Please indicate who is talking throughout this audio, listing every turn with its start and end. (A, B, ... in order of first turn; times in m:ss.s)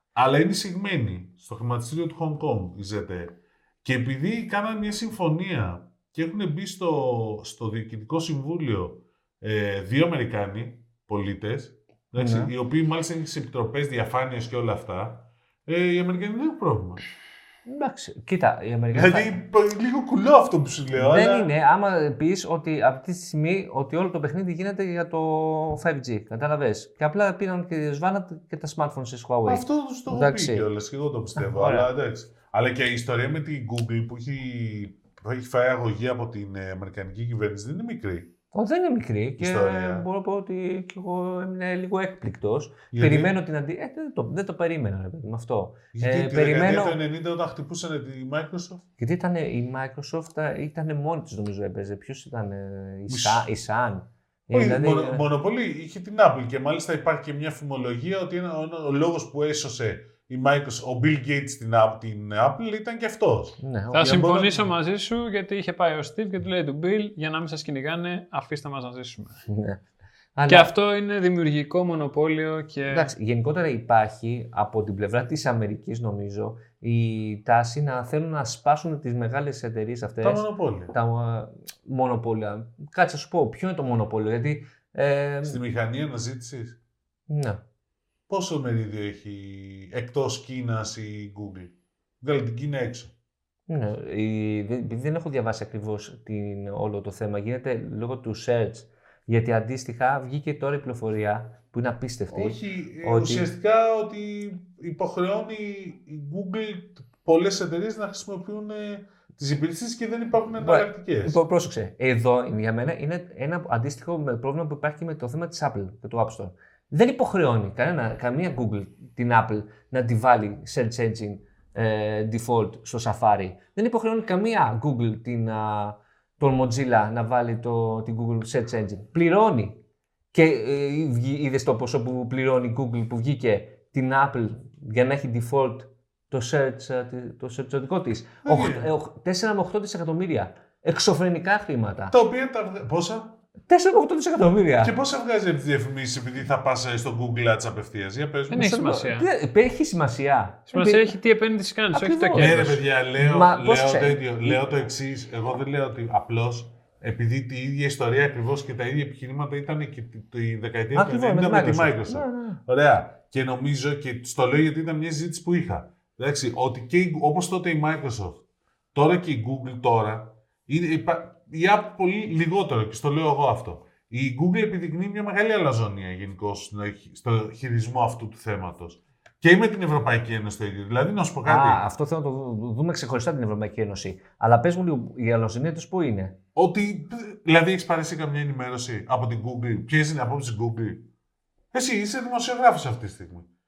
0:00.2-0:17.0 A
0:12.2-0:12.5 B
0:17.6-0:19.4 B
0:18.9-0:21.5 A
0:20.9-0:30.7 B
0:29.5-0:38.3 A
0:31.4-0:31.9 B
0:38.5-0:47.0 B
0:39.4-0:40.0 A
0:42.9-0:43.3 A
0:45.9-0:48.8 A
0:49.0-0:55.2 B
0:53.1-0:53.5 A
0:54.5-1:04.7 A
1:03.6-1:04.3 B
1:03.9-1:09.4 C
1:09.5-1:09.8 B
1:10.4-1:10.7 B
1:10.5-1:13.1 C
1:12.9-1:25.6 B
1:20.2-1:20.9 A
1:25.4-1:26.8 A
1:27.3-1:27.6 B
1:28.3-1:33.1 A
1:33.7-1:43.5 B
1:42.3-1:51.4 A
1:50.5-2:09.8 B
2:10.3-2:22.2 B
2:18.4-2:18.9 A
2:22.1-2:23.4 A
2:23.7-2:24.9 B
2:24.8-2:28.7 A
2:28.5-2:29.3 C
2:28.5-2:31.1 B
2:30.7-2:32.8 C
2:31.9-2:34.6 B
2:32.3-2:48.4 A
2:40.9-2:42.6 B
2:48.9-3:01.8 A
3:01.4-3:06.3 B
3:06.5-3:11.1 A
3:11.7-3:13.5 A